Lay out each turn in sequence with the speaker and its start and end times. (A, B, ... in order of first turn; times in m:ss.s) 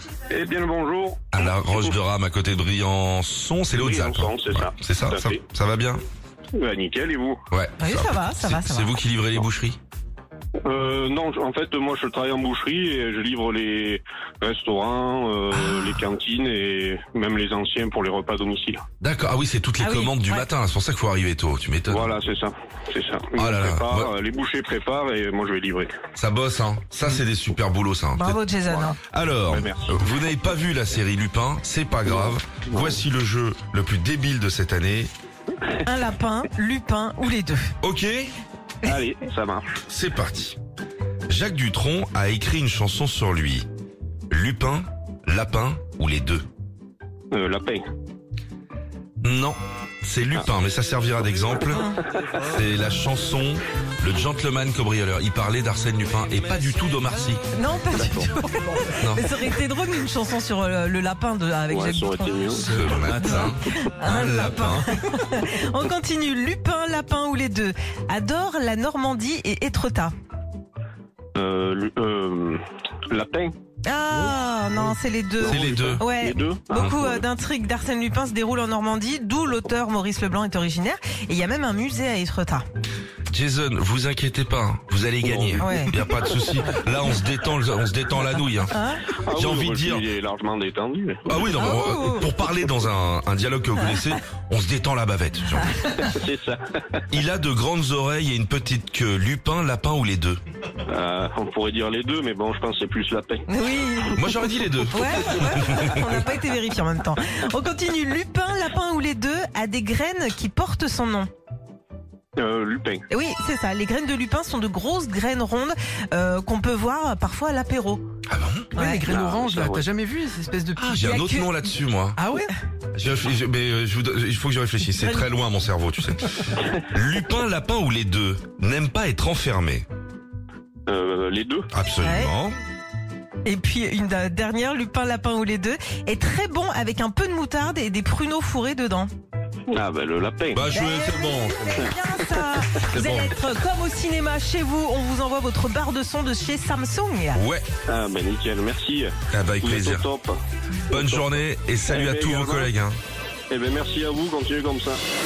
0:00.3-0:02.0 A
0:01.3-0:06.0 B
0:03.7-0:05.4 A
0:06.6-0:07.4 A
0:07.5-0:09.8 B
0:07.8-0:09.0 C
0:10.6-0:18.8 A
0:15.5-0:16.0 B
0:19.0-0:22.1 B
0:19.8-0:20.5 C
0:21.9-0:26.0 A
0:23.4-0:24.1 B
0:26.2-0:28.4 B
0:28.2-0:29.0 C
0:29.1-0:35.1 B
0:29.5-0:30.0 A
0:32.1-0:33.0 A
0:35.8-0:37.7 C
0:37.8-0:38.3 B
0:38.8-0:39.8 A
0:39.9-0:40.6 B
0:41.3-0:43.7 B
0:44.3-0:46.4 B
0:47.3-0:47.8 A
0:49.2-0:51.9 B
0:51.7-0:52.0 C
0:52.4-0:57.4 B
0:57.5-1:10.1 C
0:58.0-0:58.3 A
0:59.0-0:59.2 B
1:01.7-1:03.4 A
1:02.6-1:04.9 B
1:11.4-1:13.5 A
1:13.8-1:22.6 C
1:15.4-1:16.0 B
1:15.4-1:17.2 A
1:16.7-1:17.0 B
1:23.3-1:28.7 B
1:25.2-1:26.3 A
1:25.6-1:25.9 C
1:28.7-1:29.1 C
1:29.2-1:31.3 A
1:29.3-1:30.1 B
1:31.3-1:35.9 B
1:31.5-1:32.3 C
1:35.7-1:36.0 C
1:36.0-1:37.0 A
1:37.1-1:40.4 B
1:40.9-1:43.5 A
1:43.5-1:44.3 C
1:44.1-1:46.0 B
1:44.9-1:51.3 C
1:52.4-1:53.0 A
1:53.1-1:58.1 C
1:58.3-1:58.7 B
1:58.8-1:59.1 C
1:58.8-2:01.4 D
1:59.1-1:59.9 A
2:00.8-2:02.2 B
2:01.0-2:01.3 C
2:02.2-2:02.5 D
2:02.9-2:09.9 B
2:04.9-2:05.3 C
2:10.9-2:11.7 A
2:11.7-2:12.6 B
2:12.0-2:12.4 C
2:13.4-2:19.1 C
2:19.7-2:20.7 A
2:20.5-2:21.9 B
2:20.7-2:27.4 C
2:21.8-2:22.3 A
2:22.8-2:23.4 B
2:27.4-2:27.7 B
2:27.9-2:30.4 A
2:29.3-2:30.1 B
2:30.9-2:32.7 A
2:30.9-2:33.0 B
2:33.5-2:35.0 A